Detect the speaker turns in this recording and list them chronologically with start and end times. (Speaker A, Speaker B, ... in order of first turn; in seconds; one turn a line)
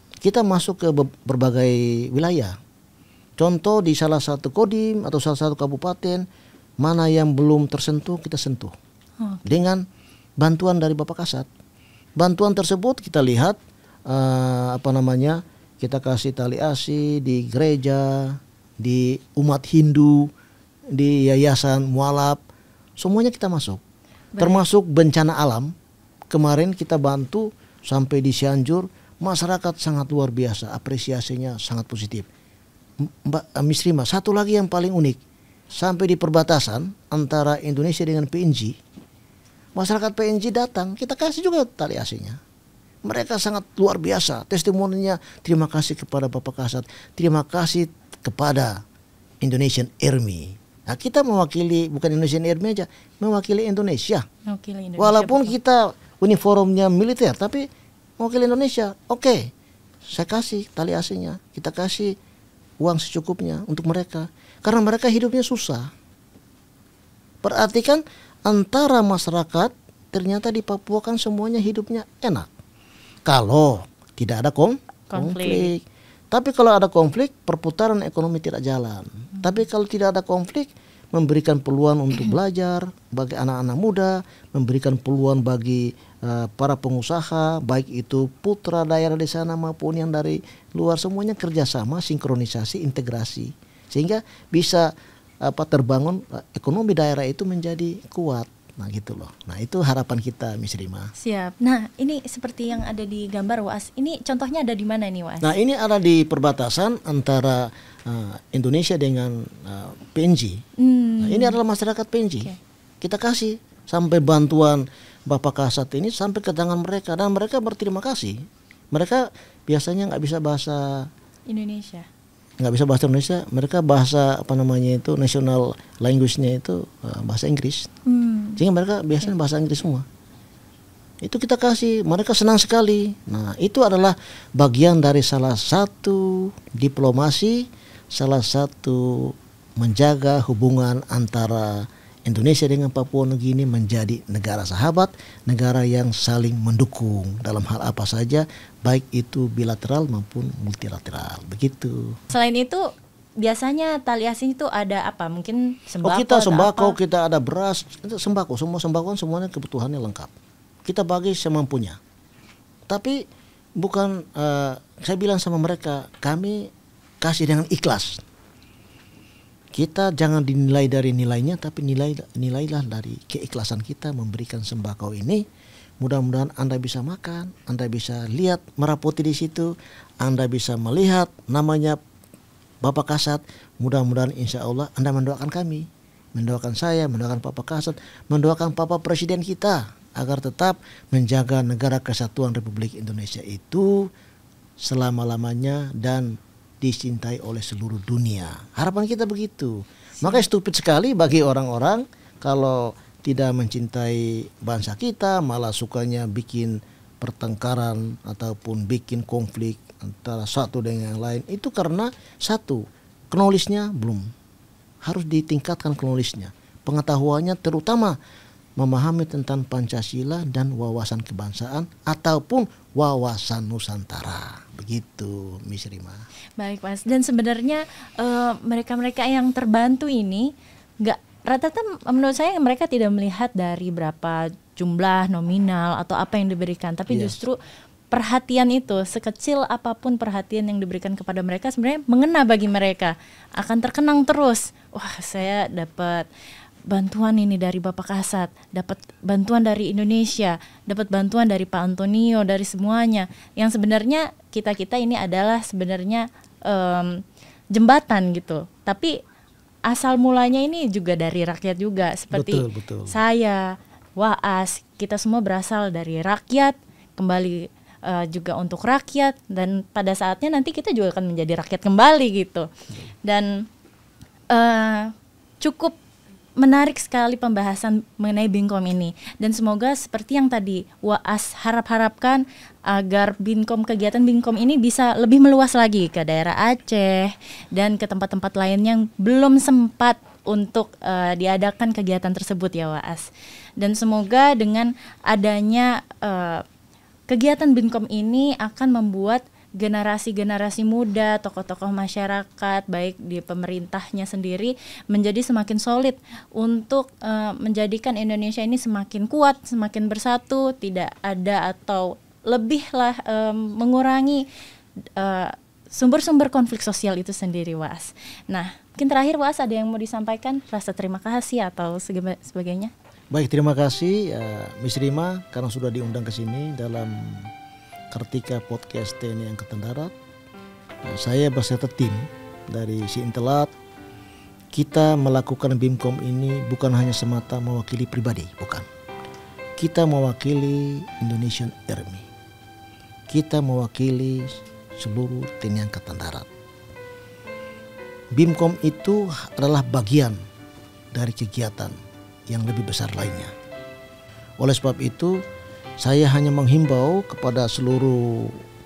Speaker A: 0.2-2.6
Speaker A: 3.4-6.2
Speaker A: 6.8-8.7
Speaker B: 9.2-9.4
Speaker A: 9.4-9.8
Speaker A: 10.4-11.5
Speaker A: 12.2-20.3
Speaker A: 20.9-22.4
Speaker A: 23.0-23.8
Speaker B: 24.3-24.6
Speaker A: 24.4-25.7
Speaker A: 26.3-32.3
Speaker A: 33.0-35.2
Speaker A: 35.7-38.7
Speaker A: 39.8-42.4
Speaker A: 43.0-48.8
Speaker A: 49.4-54.2
Speaker B: 54.5-55.5
Speaker A: 55.0-57.7
Speaker A: 58.2-59.5
Speaker A: 60.1-62.2
Speaker A: 62.8-65.9
Speaker A: 67.4-72.5
Speaker A: 73.2-94.9
Speaker B: 75.1-75.7
Speaker A: 95.4-101.1
Speaker B: 101.2-105.5
Speaker A: 105.4-110.6
Speaker B: 110.8-111.6
Speaker A: 111.2-121.1
Speaker B: 121.5-122.1
Speaker A: 122.6-127.9
Speaker B: 128.0-128.6
Speaker A: 128.6-130.1
Speaker A: 131.2-152.2
Speaker B: 152.3-152.9
Speaker B: 153.4-157.0
Speaker A: 156.0-160.3
Speaker A: 160.8-162.0
Speaker A: 162.9-163.2
Speaker A: 163.8-168.2
Speaker A: 169.7-175.4
Speaker A: 176.0-182.0
Speaker A: 182.8-194.1
Speaker A: 194.8-214.3
Speaker A: 215.0-218.2
Speaker A: 218.8-226.2
Speaker B: 226.6-237.6
Speaker A: 237.1-237.4
Speaker B: 238.1-246.3
Speaker B: 246.9-259.2
Speaker B: 259.9-272.7
Speaker A: 262.3-263.2
Speaker B: 273.2-273.6
Speaker B: 274.5-276.0
Speaker B: 276.6-296.6
Speaker B: 297.3-314.5
Speaker B: 315.1-322.9
Speaker A: 323.3-327.5
Speaker A: 328.1-330.1
Speaker A: 331.0-333.7
Speaker A: 334.7-338.9
Speaker A: 339.8-342.2
Speaker A: 343.3-346.5
Speaker A: 348.3-350.4
Speaker A: 351.1-351.9
Speaker A: 352.5-353.5
Speaker A: 354.6-355.4
Speaker A: 356.0-358.6